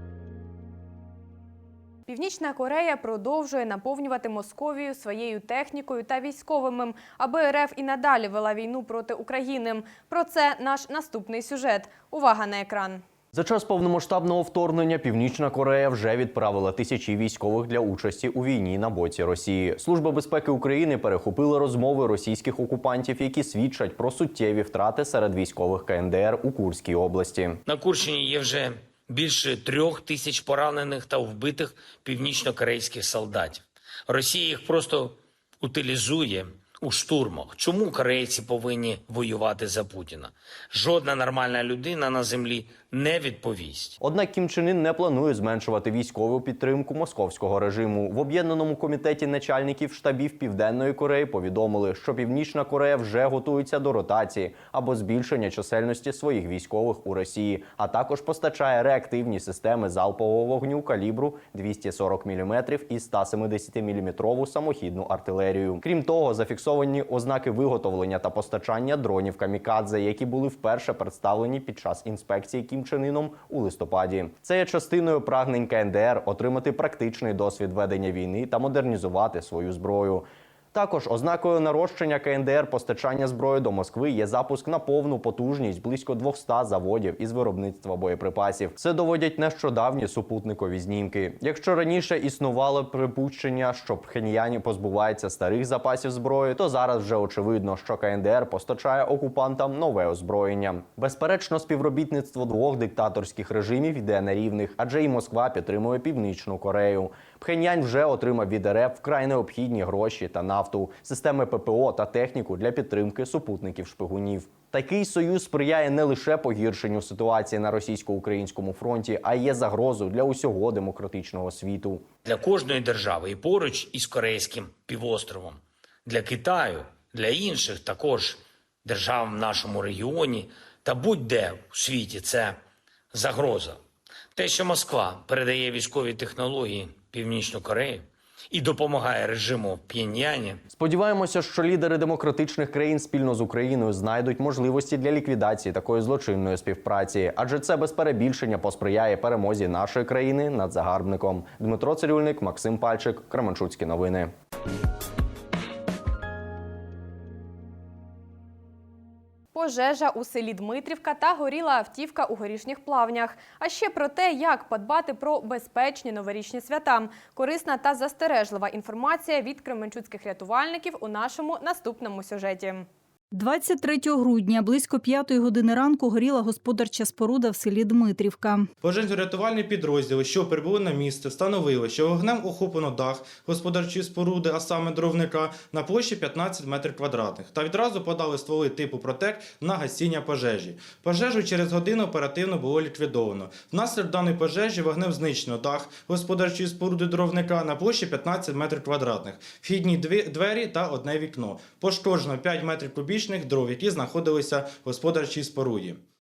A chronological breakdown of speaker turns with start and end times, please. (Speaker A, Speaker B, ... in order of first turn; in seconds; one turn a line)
Speaker A: 2.1-13.0
Speaker B: 13.3-27.6
Speaker C: 27.7-44.0
Speaker B: 44.0-122.0
Speaker C: 122.2-132.6
Speaker C: 133.1-133.8
Speaker C: 134.3-140.6
Speaker B: 140.7-154.3
Speaker A: 159.5-172.9
Speaker D: 173.3-178.7
Speaker E: 178.8-206.0